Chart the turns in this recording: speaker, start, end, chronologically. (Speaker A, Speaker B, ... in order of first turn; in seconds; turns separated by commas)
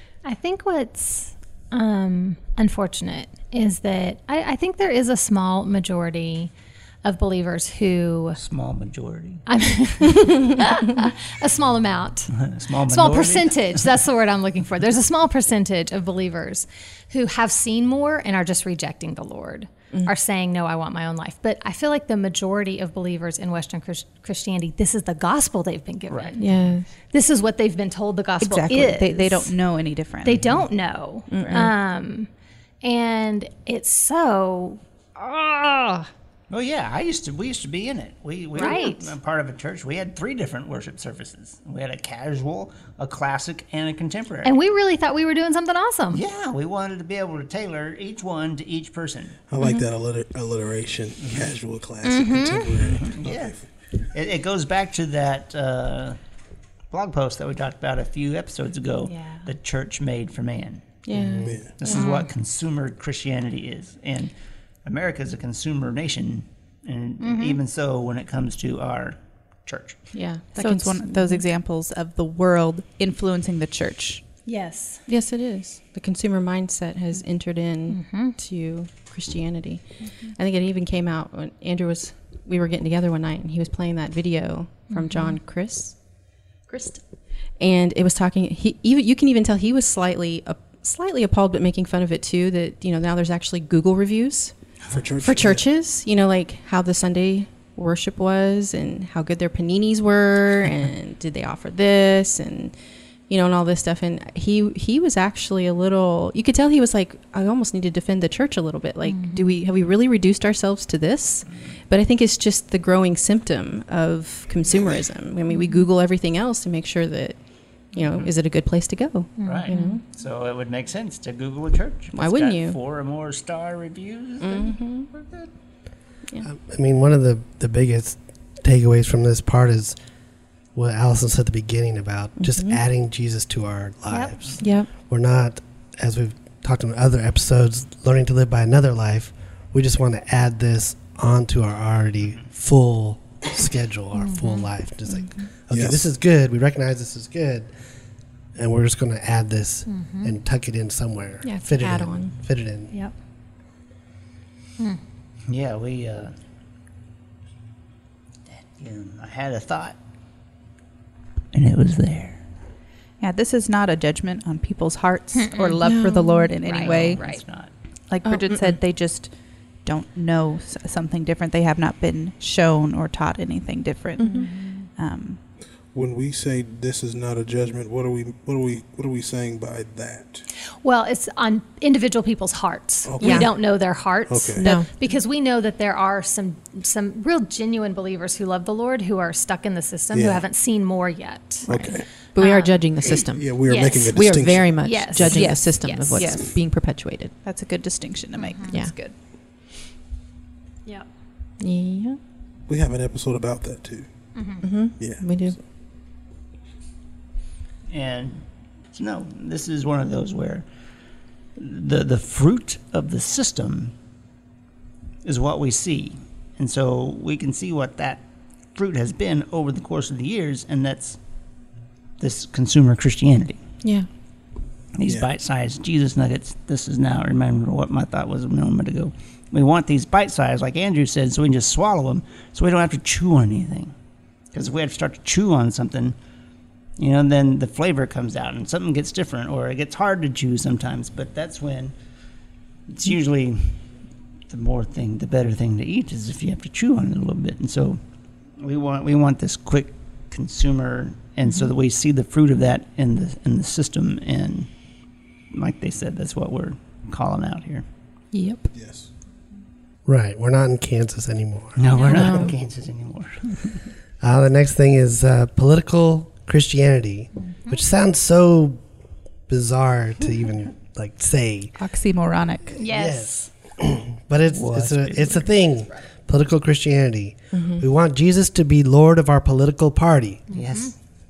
Speaker A: 0.2-6.5, Speaker A: 7.0-8.4, Speaker B: 8.4-9.4, Speaker A: 9.5-12.3, Speaker B: 12.3-13.8, Speaker A: 12.8-26.5, Speaker B: 26.1-26.4, Speaker C: 26.4-26.9, Speaker A: 27.1-29.5, Speaker D: 28.4-30.6, Speaker A: 30.2-32.3, Speaker C: 31.3-31.8, Speaker D: 31.4-31.7, Speaker A: 32.8-36.1, Speaker B: 36.5-44.5, Speaker A: 38.5-39.1, Speaker A: 44.4-46.2, Speaker B: 46.1-49.4, Speaker E: 49.5-53.6, Speaker C: 49.6-49.9, Speaker A: 52.0-52.8, Speaker B: 52.8-53.5, Speaker B: 54.1-56.2, Speaker B: 56.9-60.8, Speaker A: 59.1-59.5, Speaker C: 61.1-62.0, Speaker F: 61.1-61.6, Speaker E: 61.5-61.7, Speaker B: 61.8-64.3, Speaker A: 61.9-62.3, Speaker B: 64.8-70.0, Speaker A: 67.2-67.6, Speaker C: 70.1-71.4, Speaker D: 70.6-74.2, Speaker A: 74.5-75.0, Speaker C: 75.1-79.8, Speaker A: 77.9-78.3, Speaker C: 80.4-86.0, Speaker A: 84.9-85.4, Speaker C: 87.6-94.5, Speaker E: 94.9-95.6, Speaker C: 95.2-102.8, Speaker C: 103.3-120.0, Speaker A: 109.1-109.6, Speaker A: 115.5-115.9, Speaker A: 119.4-120.0, Speaker B: 119.5-125.5, Speaker C: 122.1-122.8, Speaker C: 124.4-125.1, Speaker F: 126.4-130.0, Speaker F: 130.8-147.7, Speaker C: 132.4-132.8, Speaker A: 134.1-134.3, Speaker C: 134.6-134.9, Speaker A: 144.2-144.7, Speaker E: 145.7-146.1, Speaker F: 148.6-152.9, Speaker A: 149.9-150.3, Speaker C: 151.4-152.3, Speaker B: 155.5-156.3, Speaker B: 158.5-160.0, Speaker B: 161.5-162.4, Speaker D: 163.2-167.2, Speaker A: 165.3-165.8, Speaker C: 165.8-166.6, Speaker A: 166.6-167.4, Speaker B: 166.8-167.7, Speaker D: 168.1-169.3, Speaker C: 168.2-168.8, Speaker D: 169.8-175.4, Speaker C: 174.2-174.5, Speaker A: 174.2-174.9, Speaker E: 175.9-180.5, Speaker A: 180.8-191.7, Speaker E: 183.1-184.7, Speaker C: 183.2-183.5, Speaker C: 184.6-184.9, Speaker E: 190.1-190.4, Speaker C: 191.7-197.3, Speaker E: 191.7-192.1, Speaker A: 192.4-192.8, Speaker E: 193.3-195.5, Speaker A: 193.7-196.3, Speaker D: 195.2-196.5, Speaker D: 197.4-199.1, Speaker A: 198.4-198.8, Speaker C: 201.6-202.2, Speaker E: 202.7-204.1, Speaker A: 204.3-204.7, Speaker C: 204.6-205.6, Speaker E: 205.0-205.4, Speaker B: 207.9-210.7, Speaker B: 211.6-213.9, Speaker B: 215.2-218.2, Speaker B: 218.8-221.2, Speaker B: 222.2-223.6, Speaker C: 223.8-224.1, Speaker B: 224.9-233.9, Speaker B: 234.5-236.2, Speaker B: 237.0-241.9, Speaker B: 242.9-243.8, Speaker B: 244.5-248.0, Speaker B: 248.6-254.7, Speaker B: 255.5-257.9, Speaker C: 258.3-258.7, Speaker E: 258.7-259.1, Speaker F: 260.1-261.9, Speaker B: 261.8-263.9, Speaker A: 261.9-262.5, Speaker C: 262.1-262.5, Speaker F: 264.2-268.8, Speaker A: 267.4-267.8, Speaker F: 269.5-271.7, Speaker D: 271.8-272.7, Speaker F: 272.7-280.4, Speaker A: 272.8-273.5, Speaker B: 274.5-275.5, Speaker C: 277.5-277.9, Speaker A: 280.5-280.9, Speaker B: 280.5-280.9